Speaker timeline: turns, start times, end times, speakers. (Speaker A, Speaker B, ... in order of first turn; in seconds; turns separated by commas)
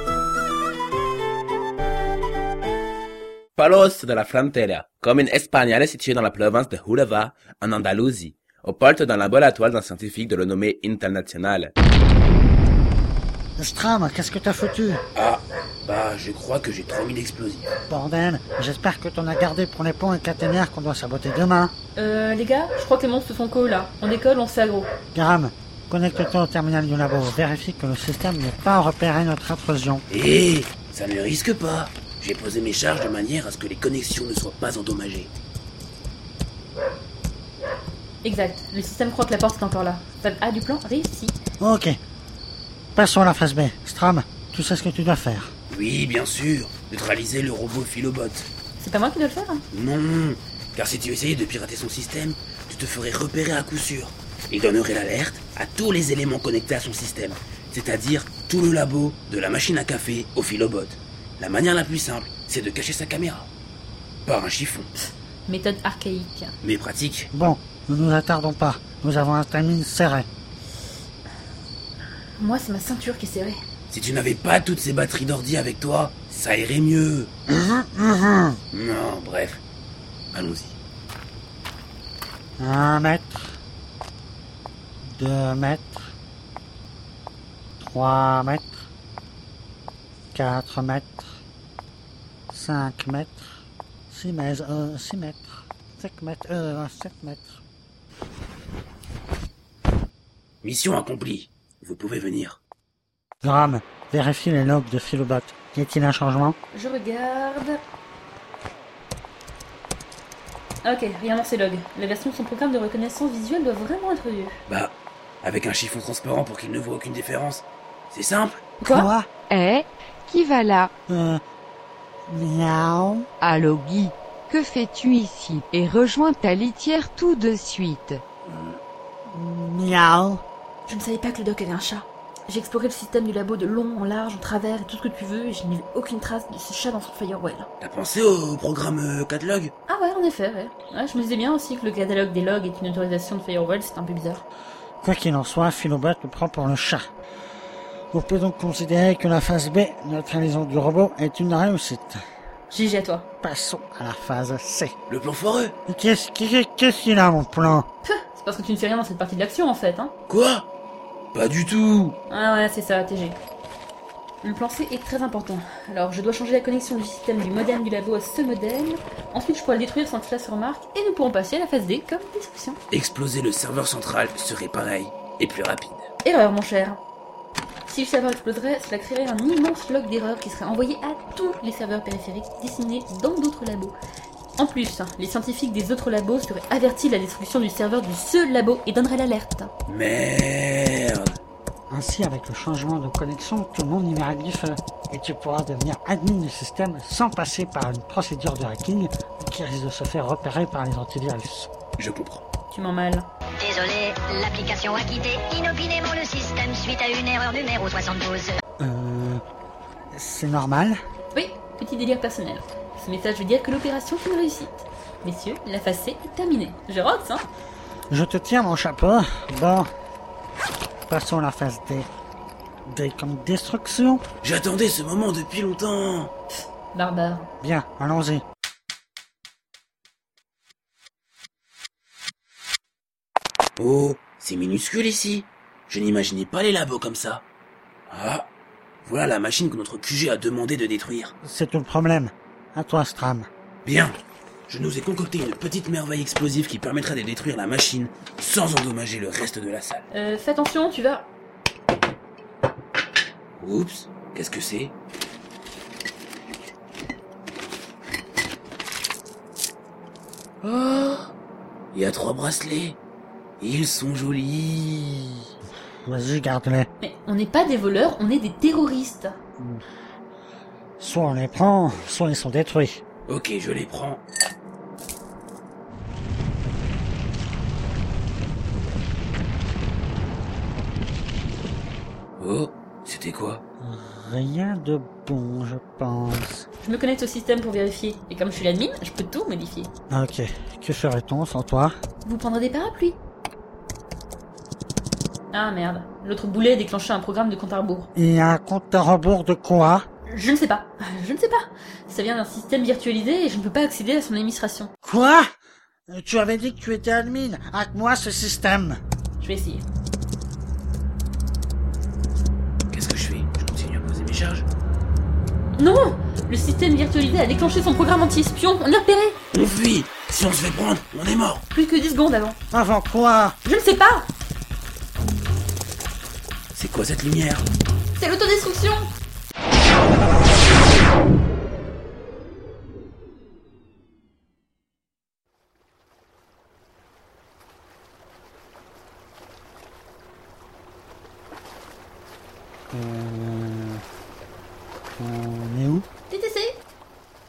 Speaker A: 3.5-11.7, Speaker B: 13.6-15.0, Speaker C: 15.1-17.7, Speaker B: 17.9-21.7, Speaker D: 21.9-24.9, Speaker B: 25.1-30.0, Speaker C: 30.1-35.3, Speaker D: 38.2-41.4, Speaker B: 41.6-41.9, Speaker B: 42.9-45.5, Speaker C: 45.7-48.5, Speaker D: 48.8-49.6, Speaker C: 49.7-63.5, Speaker C: 64.2-64.9, Speaker D: 65.0-66.5, Speaker C: 66.6-67.3, Speaker B: 67.3-70.3, Speaker D: 72.4-73.6, Speaker C: 73.9-77.3, Speaker B: 77.5-78.6, Speaker C: 78.7-79.6, Speaker C: 80.3-80.8, Speaker B: 82.6-83.5, Speaker B: 85.0-86.1, Speaker B: 87.8-88.8, Speaker B: 90.3-91.3, Speaker B: 92.5-93.4, Speaker B: 94.1-97.6, Speaker C: 100.6-102.6, Speaker B: 103.4-106.6, Speaker D: 106.7-107.8, Speaker D: 110.8-114.6, Speaker C: 114.7-118.7, Speaker B: 118.8-119.3, Speaker E: 118.9-120.9, Speaker B: 121.1-121.4, Speaker B: 122.3-123.2, Speaker E: 123.4-128.2, Speaker C: 128.4-128.8, Speaker B: 129.3-130.4, Speaker D: 130.9-137.7, Speaker C: 137.8-139.7, Speaker D: 139.9-144.4, Speaker B: 145.0-147.0, Speaker B: 148.1-152.2, Speaker D: 152.7-153.3, Speaker B: 153.4-154.9, Speaker C: 155.1-155.7, Speaker B: 155.9-157.9, Speaker D: 158.0-160.1, Speaker C: 160.3-160.7, Speaker C: 161.3-162.2, Speaker D: 162.3-163.4, Speaker D: 164.4-172.8, Speaker C: 172.9-176.1, Speaker D: 176.2-177.0, Speaker D: 177.9-183.9, Speaker D: 184.6-189.7, Speaker C: 189.9-191.4, Speaker B: 191.9-201.7, Speaker C: 202.0-202.4, Speaker D: 202.7-203.3, Speaker F: 203.6-208.6, Speaker B: 208.8-209.4, Speaker B: 210.1-211.0, Speaker D: 211.3-217.5, Speaker B: 218.1-219.9, Speaker B: 221.1-222.1, Speaker B: 222.8-224.2, Speaker C: 224.4-226.3, Speaker D: 226.9-227.5, Speaker B: 227.6-228.4, Speaker C: 233.8-237.4, Speaker C: 238.1-238.5, Speaker C: 239.0-241.3, Speaker B: 241.4-243.5, Speaker C: 243.8-250.1, Speaker D: 250.1-251.3, Speaker C: 253.6-254.9, Speaker C: 260.6-261.3, Speaker C: 261.9-263.0, Speaker C: 263.6-265.4, Speaker B: 266.1-266.9, Speaker D: 267.0-269.4, Speaker B: 271.0-273.0, Speaker C: 273.3-274.2, Speaker C: 282.4-283.6, Speaker B: 283.8-286.7, Speaker D: 286.8-289.9, Speaker B: 290.1-291.9, Speaker D: 292.2-293.2, Speaker D: 295.5-298.1, Speaker B: 298.1-300.1, Speaker D: 300.2-304.9, Speaker B: 305.0-305.5, Speaker B: 306.1-309.0, Speaker D: 309.4-309.8, Speaker C: 312.9-314.6, Speaker D: 315.8-319.4, Speaker C: 319.5-321.6, Speaker D: 321.7-322.6, Speaker B: 322.7-323.6, Speaker D: 323.6-324.3, Speaker C: 326.7-327.6, Speaker D: 328.1-329.1, Speaker B: 342.9-344.0, Speaker B: 345.2-346.1, Speaker D: 346.3-346.8